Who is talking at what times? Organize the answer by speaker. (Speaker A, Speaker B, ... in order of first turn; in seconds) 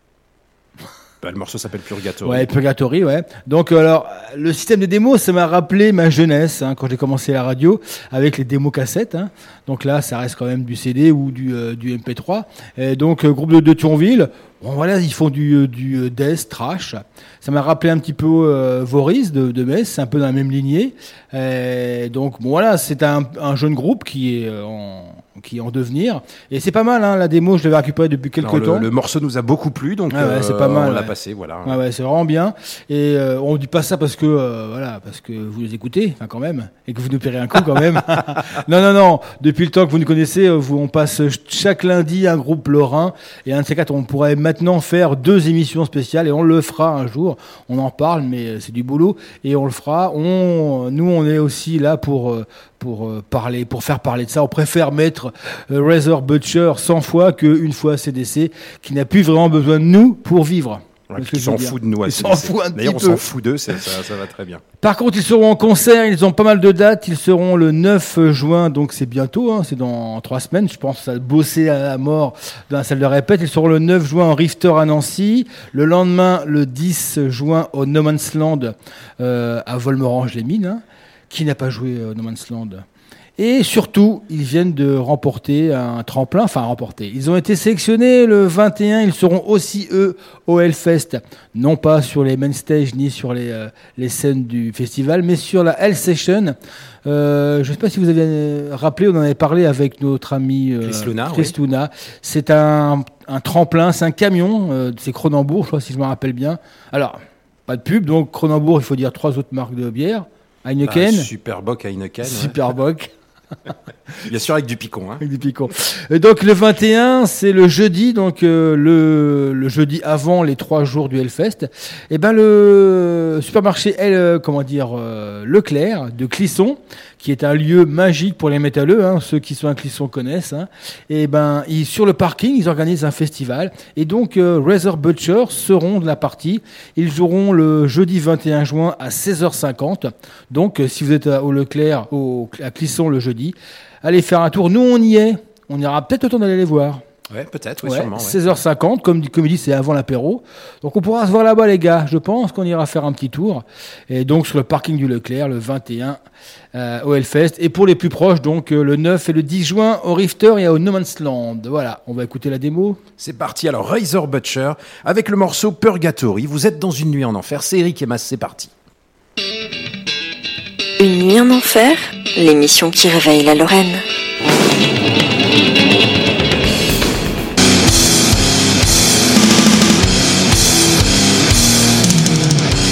Speaker A: 1.2-2.5, 28.4-31.8, 61.1-64.6, 100.8-101.5, 110.8-112.6, 114.3-115.2, 147.3-148.4, 163.2-168.7
Speaker B: 2.2-28.9, 30.1-31.1, 31.6-63.2, 64.8-82.8, 83.4-111.3, 112.2-113.1, 115.2-147.0, 147.8-156.2, 156.7-163.0
Speaker C: 171.0-174.0